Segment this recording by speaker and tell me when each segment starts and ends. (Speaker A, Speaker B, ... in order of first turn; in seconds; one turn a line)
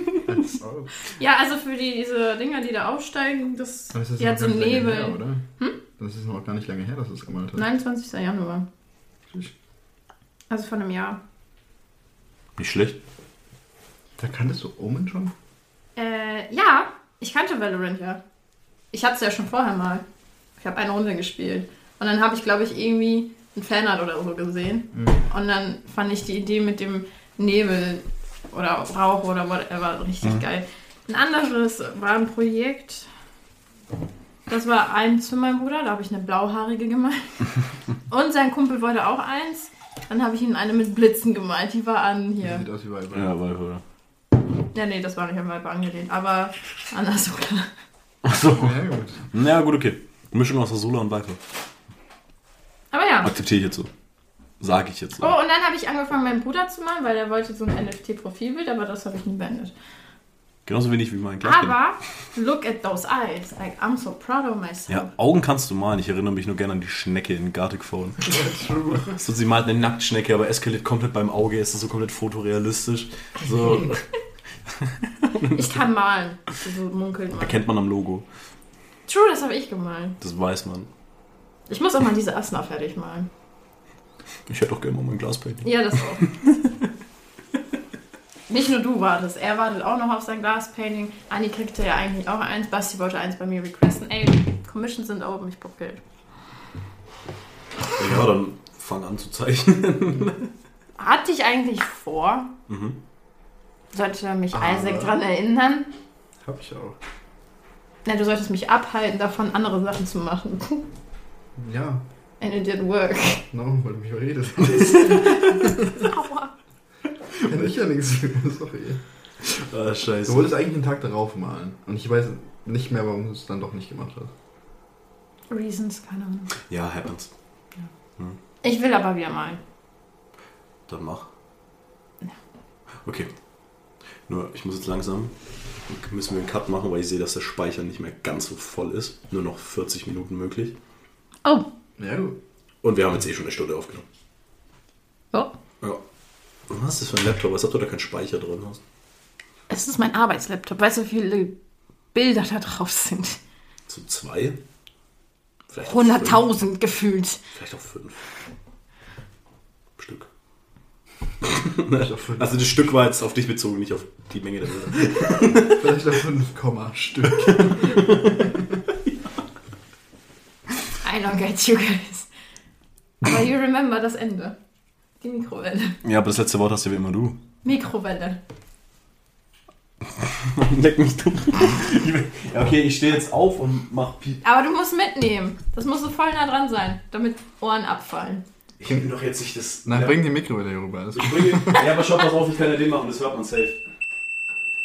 Speaker A: 0.3-0.9
Speaker B: 1.0-5.8
Speaker A: 3.9-5.4
Speaker A: 6.0-7.7
Speaker B: 7.5-8.7
Speaker A: 9.3-9.5
Speaker B: 10.5-11.2
Speaker C: 12.6-13.0
Speaker A: 14.2-15.3
Speaker B: 15.9-18.2
Speaker B: 18.9-20.0
Speaker B: 20.6-33.1
Speaker A: 24.9-25.2
Speaker B: 34.5-37.5
Speaker B: 38.1-42.6
Speaker A: 42.4-43.3
Speaker C: 43.1-43.8
Speaker B: 44.7-47.7
Speaker C: 48.2-51.4
Speaker A: 48.4-49.2
Speaker B: 52.9-53.3
Speaker C: 53.2-53.9
Speaker C: 54.6-55.3
Speaker B: 55.2-59.7
Speaker C: 60.7-61.8
Speaker B: 61.4-65.1
Speaker C: 64.9-68.4
Speaker A: 68.2-69.2
Speaker C: 69.0-74.0
Speaker C: 74.7-75.8
Speaker B: 75.5-77.6
Speaker C: 77.4-78.3
Speaker B: 79.1-80.2
Speaker C: 80.2-80.9
Speaker B: 81.7-83.3
Speaker C: 84.5-86.7
Speaker B: 85.6-86.5
Speaker B: 88.5-96.0
Speaker C: 98.0-100.5
Speaker B: 101.0-102.5
Speaker C: 102.7-103.0
Speaker B: 103.9-105.9
Speaker A: 104.5-105.2
Speaker A: 106.4-107.0
Speaker B: 108.0-110.9
Speaker A: 111.5-112.0
Speaker B: 112.4-113.5
Speaker A: 113.5-116.0
Speaker C: 114.6-115.8
Speaker B: 115.7-116.5
Speaker A: 117.5-119.0
Speaker C: 119.4-120.5
Speaker A: 120.2-124.3
Speaker B: 125.5-126.5
Speaker C: 126.7-127.3
Speaker B: 128.6-129.6
Speaker C: 130.9-131.3
Speaker C: 133.0-133.3
Speaker C: 134.3-135.3
Speaker C: 135.9-140.8
Speaker A: 142.0-142.4
Speaker C: 142.8-144.1
Speaker C: 146.7-148.8
Speaker B: 149.7-151.6
Speaker B: 152.1-153.4
Speaker C: 153.9-154.6
Speaker C: 155.7-156.5
Speaker B: 155.8-157.4
Speaker C: 157.5-158.3
Speaker C: 160.0-160.3
Speaker C: 161.4-165.9
Speaker A: 162.1-162.9
Speaker A: 165.6-168.7
Speaker C: 167.4-169.1
Speaker B: 171.0-172.3
Speaker B: 173.2-174.6
Speaker B: 175.2-176.0
Speaker C: 176.0-177.4
Speaker B: 177.6-178.4
Speaker C: 180.1-184.4
Speaker B: 184.4-188.4
Speaker C: 188.8-190.2
Speaker A: 189.9-191.9
Speaker C: 191.1-193.8